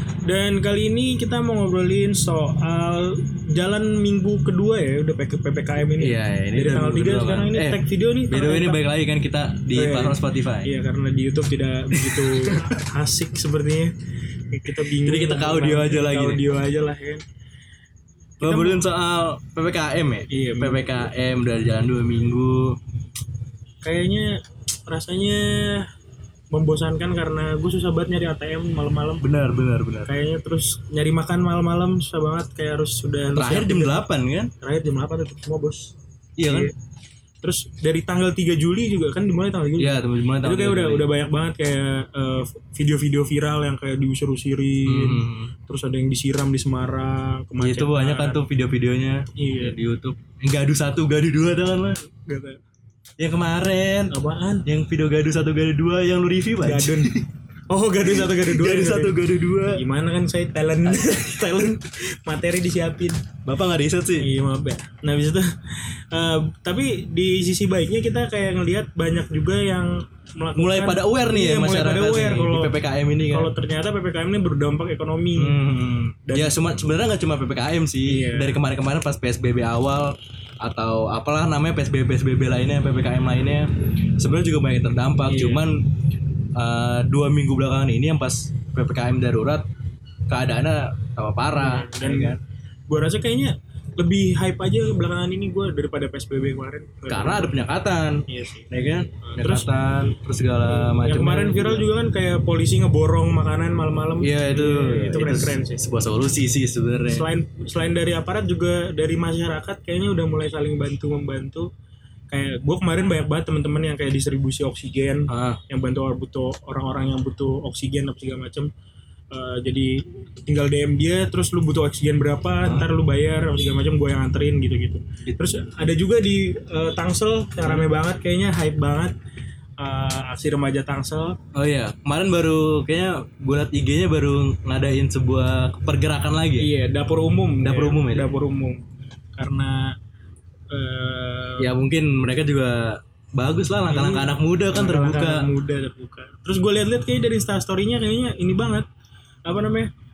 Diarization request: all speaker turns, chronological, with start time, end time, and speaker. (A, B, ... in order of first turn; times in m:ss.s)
0:00.2-0:08.8 A
0:06.0-0:10.7 B
0:09.7-0:13.9 A
0:11.9-0:12.7 B
0:14.5-0:17.2 A
0:15.0-0:16.4 B
0:18.4-0:22.8 B
0:18.4-0:18.8 A
0:20.3-0:21.0 A
0:23.8-0:24.3 A
0:24.9-0:25.8 A
0:26.5-0:29.2 A
0:29.2-0:30.1 B
0:30.0-0:34.0 A
0:33.3-0:34.5 B
0:34.6-0:35.9 A
0:36.4-0:36.7 B
0:36.4-0:36.7 A
0:37.4-0:48.4 A
0:39.8-0:41.1 B
0:44.8-0:45.5 B
0:47.6-0:52.0 B
0:49.4-0:49.8 A
0:52.1-0:52.6 A
0:53.2-0:54.1 B
0:54.1-0:54.6 A
0:54.6-0:57.2 B
0:56.6-0:57.1 A
0:57.7-0:59.2 A
0:58.1-0:59.8 B
0:59.7-1:03.2 A
1:00.9-1:01.2 B
1:03.4-1:04.2 B
1:04.2-1:05.4 A
1:06.1-1:12.7 A
1:10.6-1:13.5 B
1:13.3-1:15.6 A
1:15.4-1:25.9 B
1:16.3-1:16.6 A
1:18.0-1:18.6 A
1:25.2-1:25.6 A
1:26.5-1:29.6 B
1:30.3-1:32.4 B
1:31.5-1:32.4 A
1:32.9-1:37.5 A
1:37.1-1:41.9 B
1:38.3-1:38.7 A
1:39.2-1:39.7 A
1:40.8-1:45.8 A
1:44.2-1:47.2 B
1:47.1-1:51.7 A
1:52.3-1:58.7 A
1:55.3-1:55.6 B
1:59.3-2:09.1 A
2:02.6-2:02.9 B
2:07.6-2:07.9 B
2:09.8-2:11.4 A
2:11.5-2:16.7 B
2:16.6-2:18.8 A
2:17.6-2:18.3 B
2:19.4-2:19.9 A
2:20.7-2:21.7 A
2:21.6-2:25.4 B
2:23.9-2:28.8 A
2:29.4-2:29.9 A